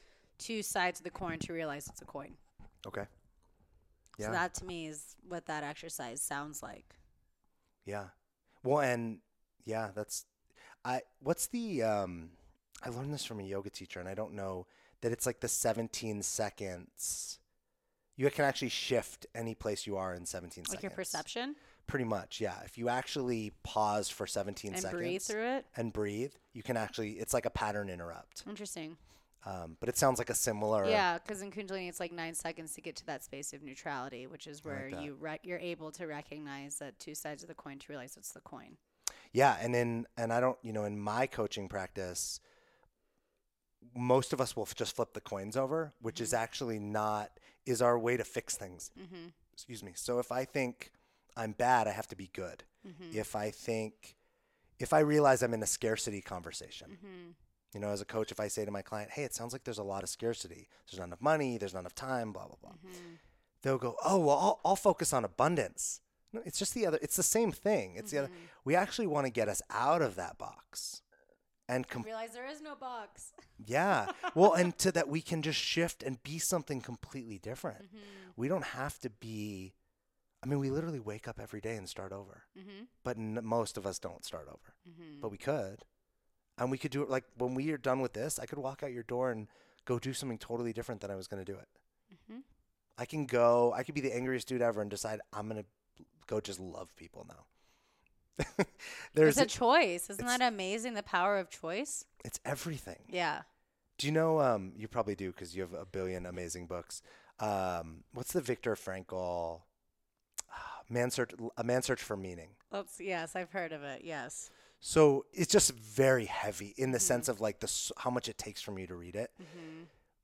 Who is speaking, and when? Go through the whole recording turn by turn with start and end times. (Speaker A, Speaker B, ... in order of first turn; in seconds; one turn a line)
Speaker A: 0.4-2.4
Speaker B: 4.2-4.4
Speaker A: 4.2-7.0
Speaker B: 7.8-8.1
Speaker B: 8.6-10.3
Speaker B: 10.8-17.4
Speaker B: 18.2-21.2
Speaker A: 20.7-21.6
Speaker B: 21.9-28.4
Speaker A: 24.7-25.7
Speaker A: 28.5-29.0
Speaker B: 29.4-31.1
Speaker A: 30.8-38.8
Speaker B: 34.6-35.1
Speaker B: 39.3-42.4
Speaker B: 43.8-48.9
Speaker A: 46.1-46.4
Speaker A: 49.0-49.3
Speaker B: 49.6-54.2
Speaker A: 52.8-53.2
Speaker B: 54.8-57.0
Speaker A: 56.9-57.4
Speaker B: 57.7-62.8
Speaker A: 62.7-63.2
Speaker B: 63.6-71.0
Speaker A: 68.0-68.5
Speaker B: 71.7-72.1
Speaker A: 72.0-73.3
Speaker B: 73.6-79.8
Speaker A: 74.1-74.3
Speaker A: 77.8-78.3
Speaker B: 80.4-82.5
Speaker A: 82.5-82.9
Speaker B: 83.0-85.8
Speaker A: 84.8-85.3
Speaker B: 86.6-91.7
Speaker A: 92.1-92.4
Speaker B: 93.0-97.5
Speaker B: 98.4-99.5
Speaker A: 99.2-102.0
Speaker B: 102.2-103.1
Speaker A: 103.1-103.5
Speaker B: 104.0-109.7
Speaker B: 110.5-112.6
Speaker A: 112.7-114.5
Speaker B: 114.8-119.3
Speaker A: 116.9-117.3
Speaker A: 119.4-119.9